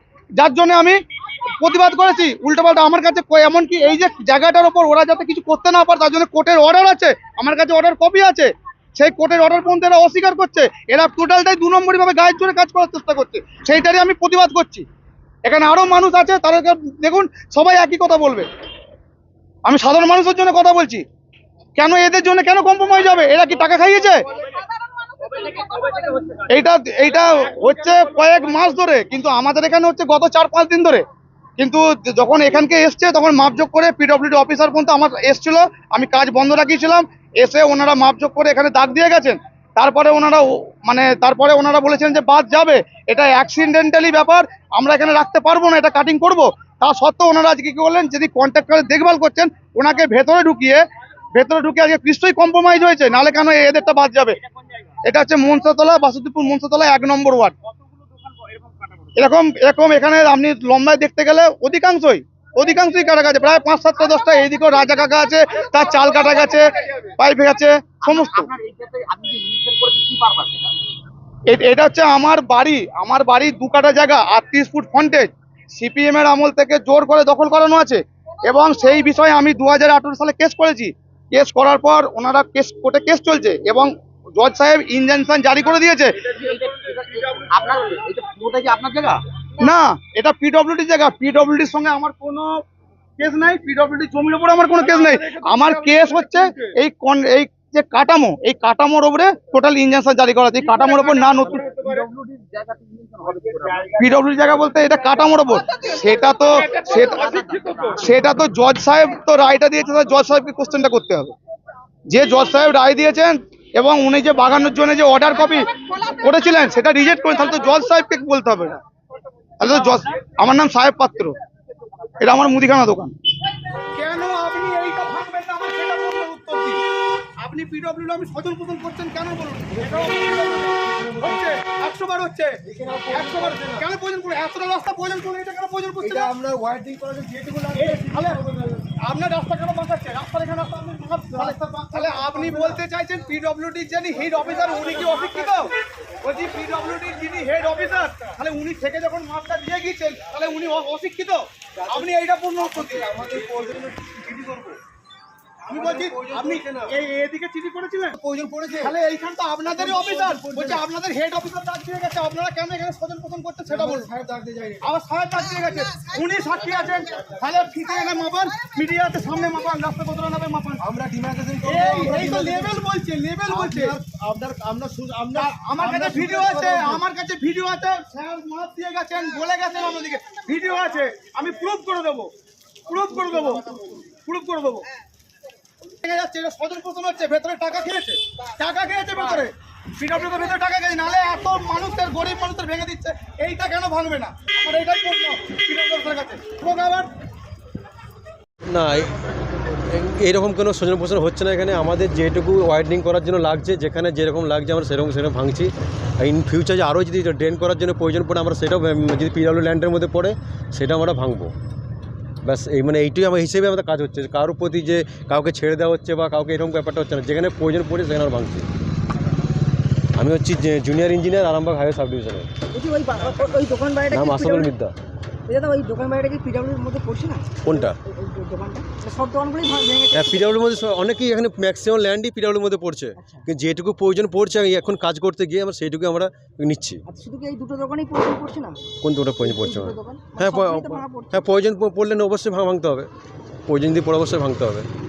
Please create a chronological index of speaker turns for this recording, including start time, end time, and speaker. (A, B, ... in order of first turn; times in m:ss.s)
0:00.4-0:01.0 A
0:01.6-0:14.8 A
0:15.4-0:18.5 A
0:19.6-0:21.0 A
0:21.8-0:24.2 A
0:26.2-0:31.0 A
0:31.6-0:50.8 A
0:51.3-0:54.4 A
0:55.0-0:57.5 A
0:59.2-1:08.5 A
1:08.0-1:10.7 B
1:11.5-1:26.3 A
1:26.4-1:29.2 B
1:29.6-1:32.5 A
1:33.2-1:41.9 A
1:40.6-1:43.9 B
1:43.8-1:51.3 A
1:46.8-1:48.0 B
1:52.1-1:58.8 A
1:59.6-2:01.4 A
2:02.2-2:03.1 A
2:03.9-2:06.8 A
2:07.4-2:12.6 A
2:09.8-2:11.6 C
2:12.7-2:13.8 C
2:13.1-2:16.3 A
2:16.0-2:18.8 C
2:17.7-2:18.4 A
2:19.0-2:34.8 A
2:21.3-2:22.8 C
2:25.0-2:25.3 C
2:32.6-2:34.1 C
2:35.7-2:38.2 A
2:35.7-2:36.8 C
2:38.2-2:38.9 C
2:38.7-2:44.1 A
2:39.7-2:40.8 C
2:43.7-2:44.8 C
2:44.8-2:50.8 A
2:50.8-2:52.7 C
2:51.6-2:54.0 A
2:53.5-2:57.0 C
2:55.3-3:02.3 A
3:02.9-3:04.8 A
3:03.2-3:03.8 C
3:05.9-3:17.1 A
3:18.7-3:19.2 D
3:19.9-3:31.5 D
3:32.4-3:38.7 D
3:40.2-3:42.5 D
3:42.7-3:44.7 E
3:44.1-3:44.9 D
3:45.5-3:50.6 E
3:47.6-3:48.0 D
3:50.1-3:57.0 D
3:53.2-3:53.4 E
3:57.1-3:58.9 E
3:59.0-4:03.1 D
3:59.4-4:01.4 E
4:03.7-4:04.9 D